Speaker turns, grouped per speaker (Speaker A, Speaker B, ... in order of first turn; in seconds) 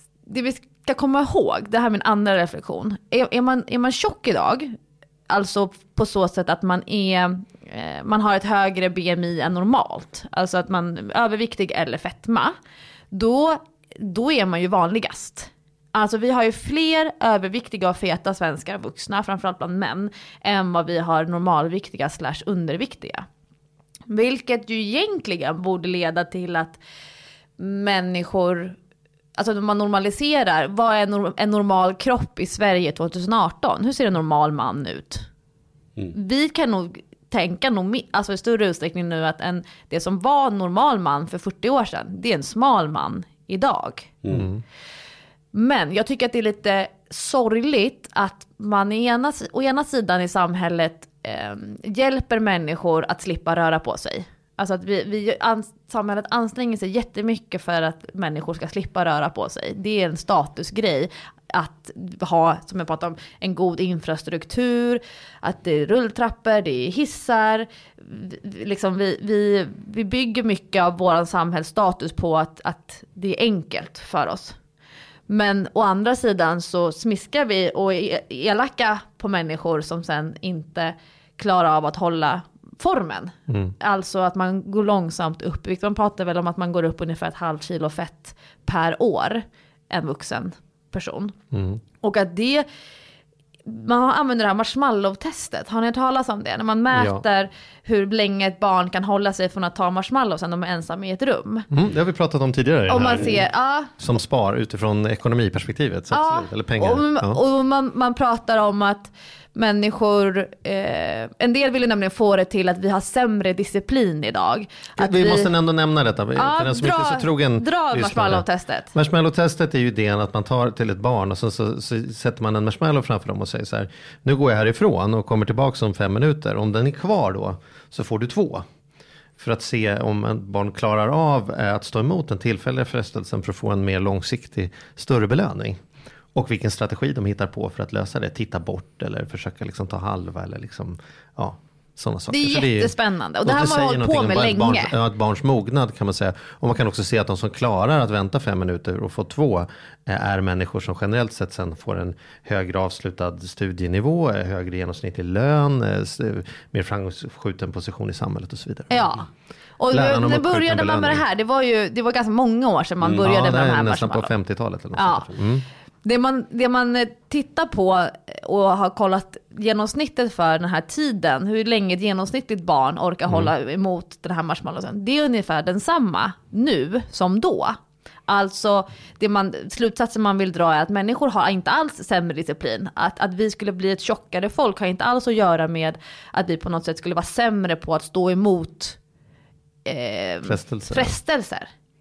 Speaker A: 0.2-4.7, 5.3-12.6, 13.1-23.2, 24.1-26.8, 27.6-28.8, 29.4-35.2, 36.1-44.1, 45.5-74.5, 75.3-91.3, 92.0-92.7, 93.7-101.7, 102.9-103.9, 106.1-115.5, 116.3-118.9, 142.3-144.9, 158.9-159.3, 159.8-164.3, 164.9-165.3, 166.0-189.0, 189.8-191.7
Speaker B: 44.3-44.6, 91.5-91.8, 96.9-97.2, 101.7-107.4, 115.0-128.6, 129.4-135.8, 136.3-142.9, 143.4-159.1, 159.9-161.2, 163.2-165.6, 190.4-191.1